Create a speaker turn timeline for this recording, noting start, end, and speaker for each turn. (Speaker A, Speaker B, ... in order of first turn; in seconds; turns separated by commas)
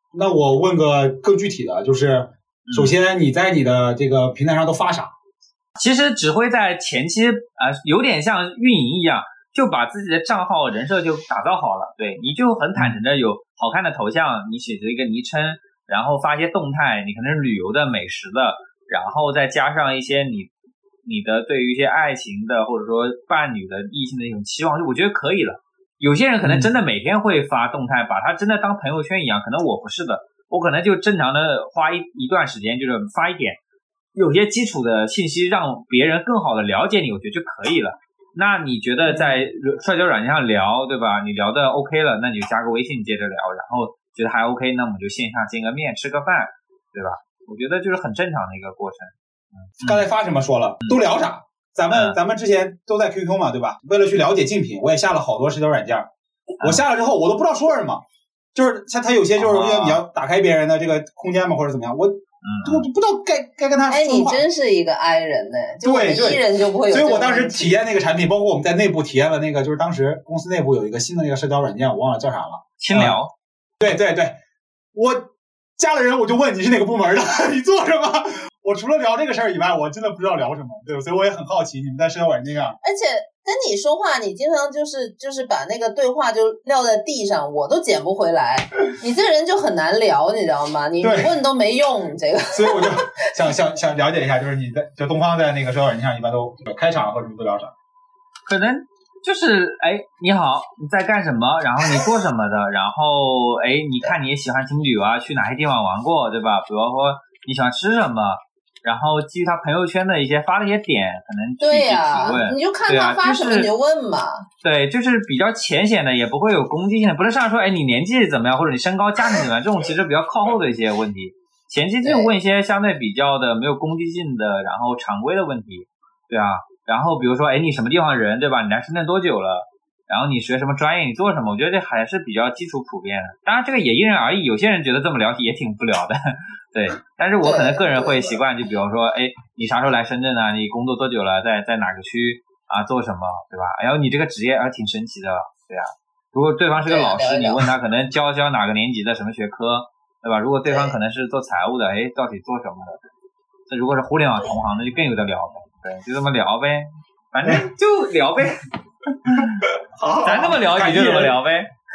Speaker A: 0.1-5.1, Speaker B: 2.7-2.9, Speaker B: 5.8-20.5, Speaker B: 21.0-33.6, Speaker A: 26.4-26.7, Speaker B: 34.1-50.0, Speaker A: 49.8-58.0, Speaker B: 51.9-52.2, Speaker A: 58.5-64.4, Speaker B: 59.4-60.0, Speaker B: 62.4-62.9, Speaker C: 63.9-67.8, Speaker A: 65.8-73.2, Speaker B: 72.8-73.3, Speaker A: 73.8-74.3, Speaker A: 74.9-82.8, Speaker C: 82.8-93.5, Speaker A: 91.0-91.3, Speaker A: 92.5-97.7, Speaker B: 98.5-113.7, Speaker C: 111.6-114.5, Speaker B: 114.6-153.0, Speaker C: 122.0-122.3, Speaker C: 137.4-138.3, Speaker C: 146.8-147.7, Speaker C: 150.7-151.0, Speaker B: 153.7-159.6, Speaker A: 159.3-161.4, Speaker B: 160.2-161.7